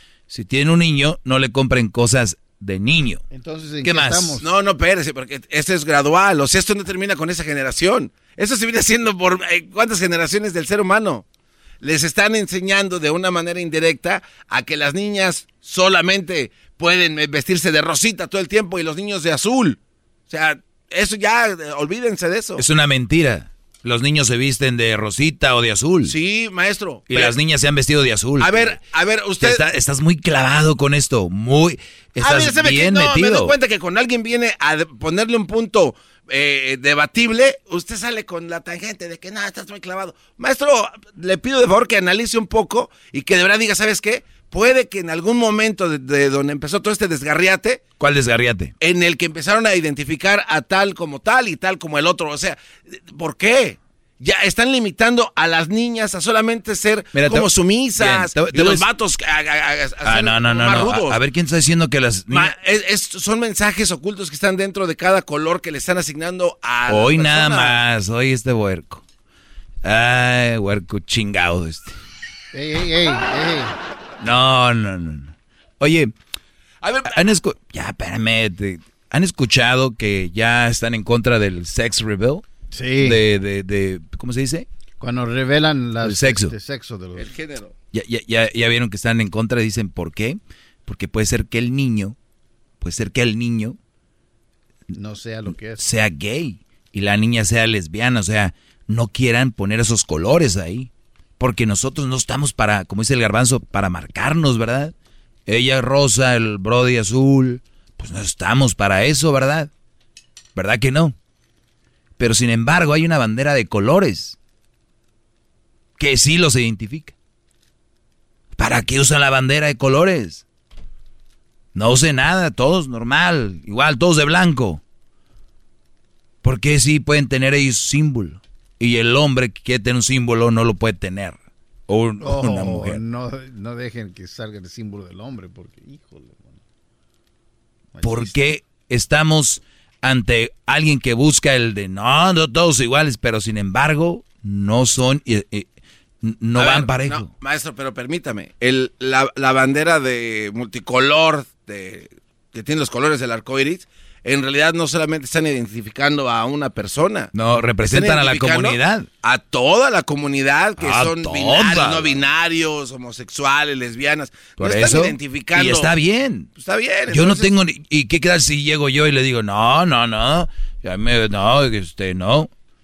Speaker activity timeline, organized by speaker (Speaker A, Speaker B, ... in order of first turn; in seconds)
Speaker A: 0.3-3.2, 3.8-4.4, 22.6-26.1, 27.1-28.8, 29.4-33.5, 48.0-48.7, 57.1-58.9, 60.0-62.5, 66.9-69.0, 69.8-72.0, 74.2-76.1, 77.1-82.5, 83.0-84.7, 86.0-86.5, 87.9-92.2, 92.8-93.8, 95.8-104.9, 105.5-109.7, 110.6-111.2, 112.2-114.4, 116.0-117.2, 118.6-120.5, 121.8-124.8, 126.4-133.0, 138.0-145.7, 146.2-147.3, 157.3-159.1, 160.8-162.2, 164.6-166.5, 167.1-172.5
Speaker B: 3.3-4.5, 72.5-73.7, 82.7-83.2, 85.0-87.3, 94.9-95.8, 132.2-136.6, 137.9-138.6
Speaker C: 4.4-11.2, 11.8-19.8, 20.3-22.6, 26.1-27.4, 28.4-29.7, 32.2-47.8, 48.8-61.2, 62.3-67.8, 76.8-77.2, 87.2-87.7, 146.6-165.9, 166.6-167.5